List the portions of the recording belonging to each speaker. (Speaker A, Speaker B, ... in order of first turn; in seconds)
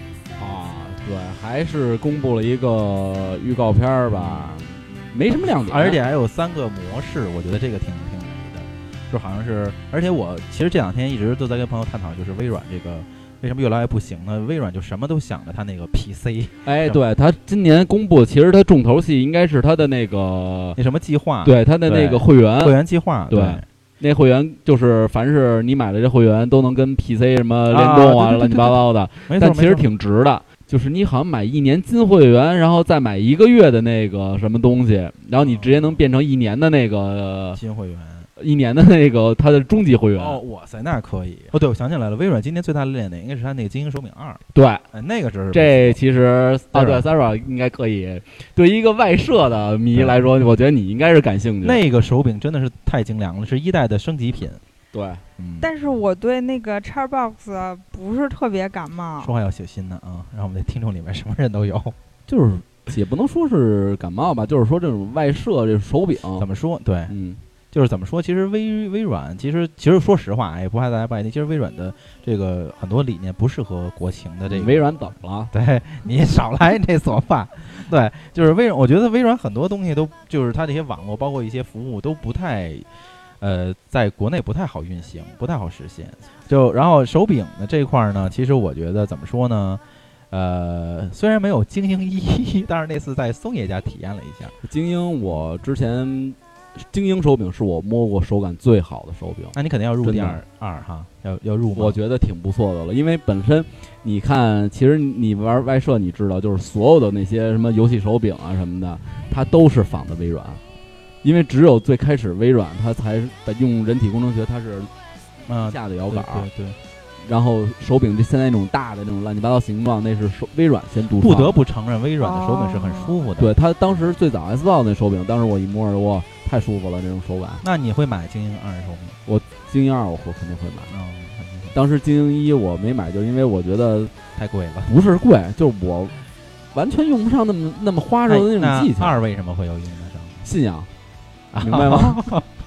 Speaker A: 0.4-6.0, 16.6-20.8, 21.4-37.6, 38.4-40.4, 44.5-44.8, 45.5-51.8, 54.9-55.2, 62.3-66.5, 67.1-67.4, 74.5-75.5, 94.6-100.4, 101.7-110.6, 111.2-114.9, 115.5-116.5, 117.2-121.6, 123.4-127.6, 129.2-130.9, 131.7-134.1, 134.9-136.2, 136.7-139.2, 140.4-140.9, 141.6-142.2
Speaker B: 4.1-4.6, 5.3-17.0, 20.8-23.6, 27.7-29.9, 35.4-36.0, 37.5-38.3, 40.1-46.0, 46.7-47.1, 49.9-50.2, 51.6-54.6, 55.4-55.7, 59.2-62.0, 66.4-67.1, 67.7-74.9, 75.5-82.9, 83.4-94.5, 99.5-102.0, 115.5-116.8, 121.1-124.0, 127.6-129.2, 130.9-131.8, 134.3-134.9, 138.3-140.5, 141.5-142.4
Speaker C: 55.6-59.3, 122.2-123.2